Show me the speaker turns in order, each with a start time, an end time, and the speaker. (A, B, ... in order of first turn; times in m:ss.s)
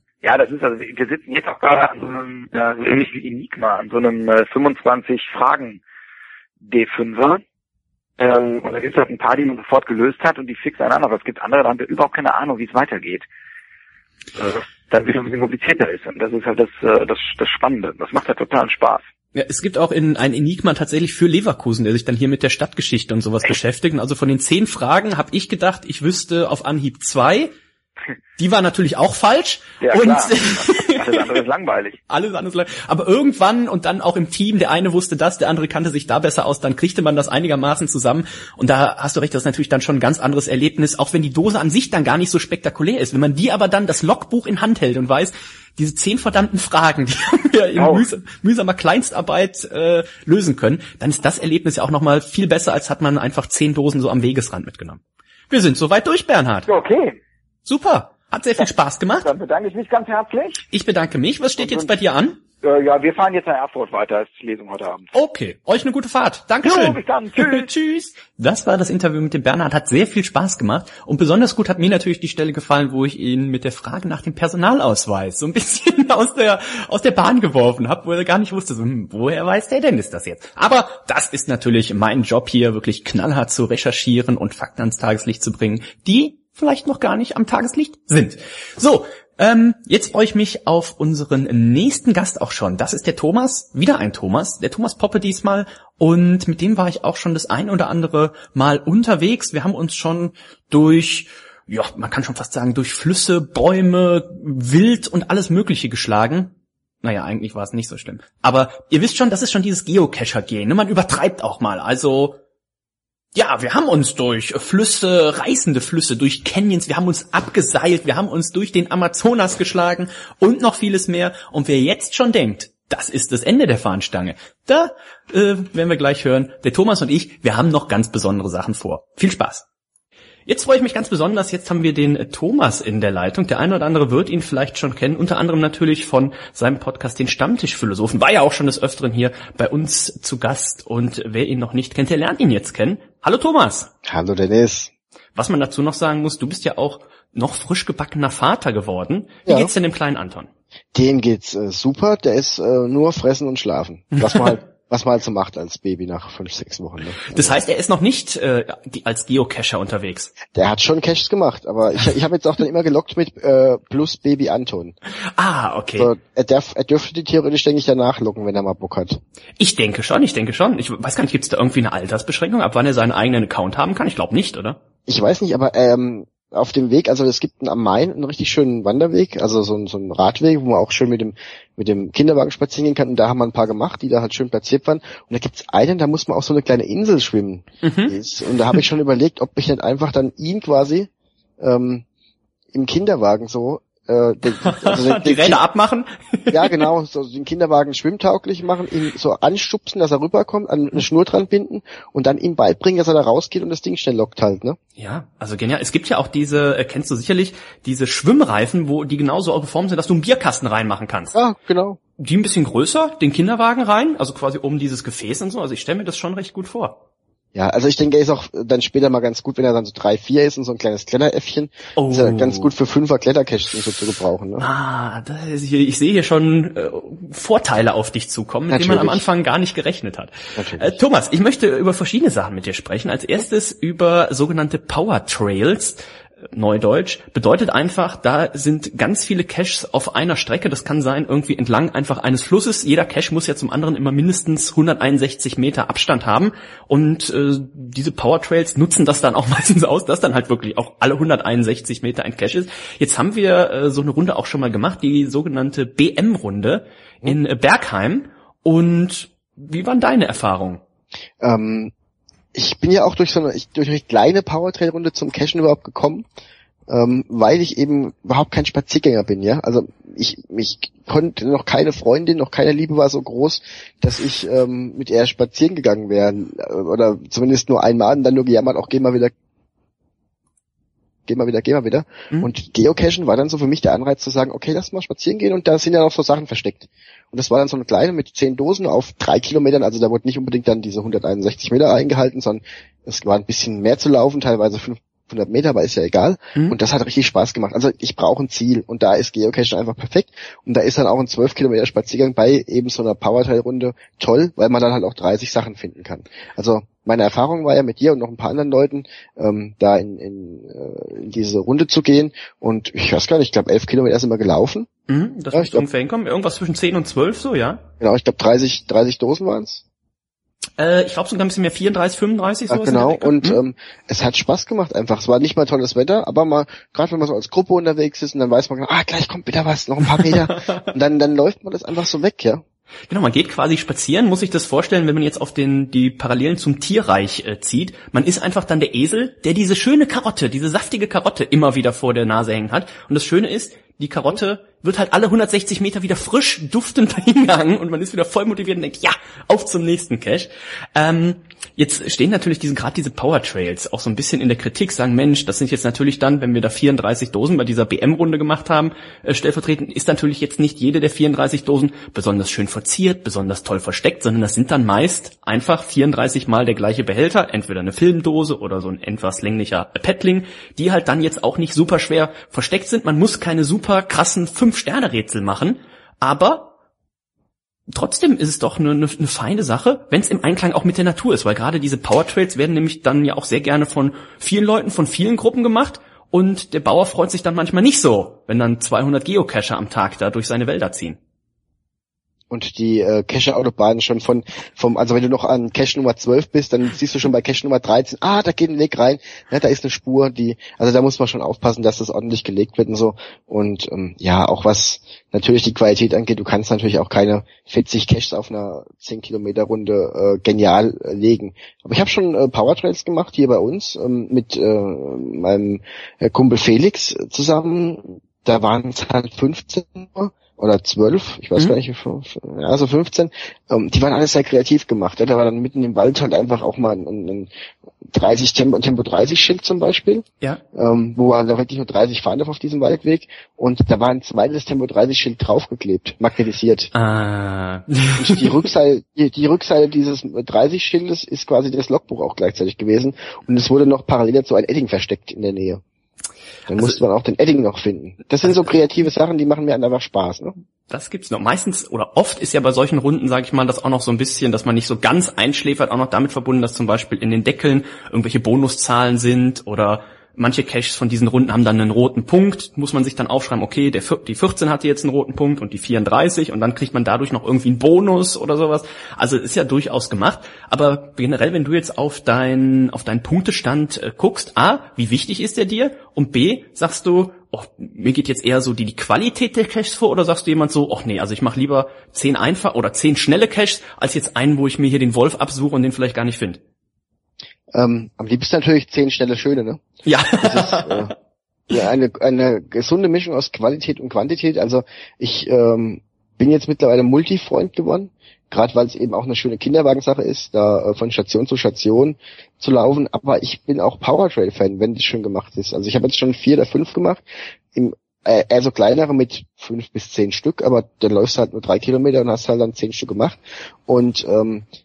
0:00.2-0:05.8 A
0:06.6-0:07.4 A
0:08.2-0:13.2 A
0:14.4-0:19.0 A
0:19.3-0:27.5 B
0:28.4-0:31.4 B
0:29.8-0:32.0 A
0:32.1-0:56.7 B
0:47.8-0:48.0 A
0:56.7-0:57.2 A
0:57.6-0:59.3 B
0:59.2-1:00.6 A
1:00.7-1:02.4 B
1:01.6-1:01.9 A
1:02.6-1:05.1 A
1:05.1-1:52.4 B
1:06.6-1:07.7 A
1:53.3-2:09.6 B
2:10.4-2:23.9 B
2:24.0-2:24.9 C
2:25.3-2:30.5 B
2:29.4-2:29.7 C
2:30.9-2:37.6 C
2:34.2-2:34.6 B
2:37.3-2:40.3 B
2:40.5-2:45.0 C
2:45.4-2:46.1 B
2:46.0-2:49.2 C
2:49.6-2:54.8 B
2:55.1-3:12.0 C
3:07.8-3:08.2 B
3:12.7-3:15.6 C
3:14.6-3:16.9 B
3:16.5-3:24.8 C
3:25.0-3:31.4 B
3:31.3-3:32.0 C
3:32.2-3:37.0 B
3:37.5-3:44.6 C
3:42.0-3:42.7 B
3:44.6-3:56.0 B
3:48.7-3:49.2 C
3:50.6-3:50.9 C
3:56.5-4:20.8 B
4:21.4-4:21.9 C
4:22.5-4:26.2 C
4:26.9-4:39.3 C
4:41.3-5:14.9 C
5:15.1-5:17.8 B
5:15.5-5:15.8 C
5:18.0-5:19.8 C
5:20.8-5:23.6 B
5:22.7-5:32.6 C
5:30.1-5:30.8 B
5:33.1-6:16.7 B
6:17.9-6:31.2 B
6:32.5-7:07.5 C
7:08.1-7:16.9 C
7:16.9-7:18.6 B
7:18.2-7:25.8 C
7:26.7-7:30.5 C
7:26.7-7:27.0 B
7:28.4-7:28.7 B
7:30.9-8:06.6 B
8:07.7-8:09.8 C
8:10.0-8:11.1 B
8:10.4-8:11.1 C
8:11.7-8:27.2 C
8:27.7-8:34.6 C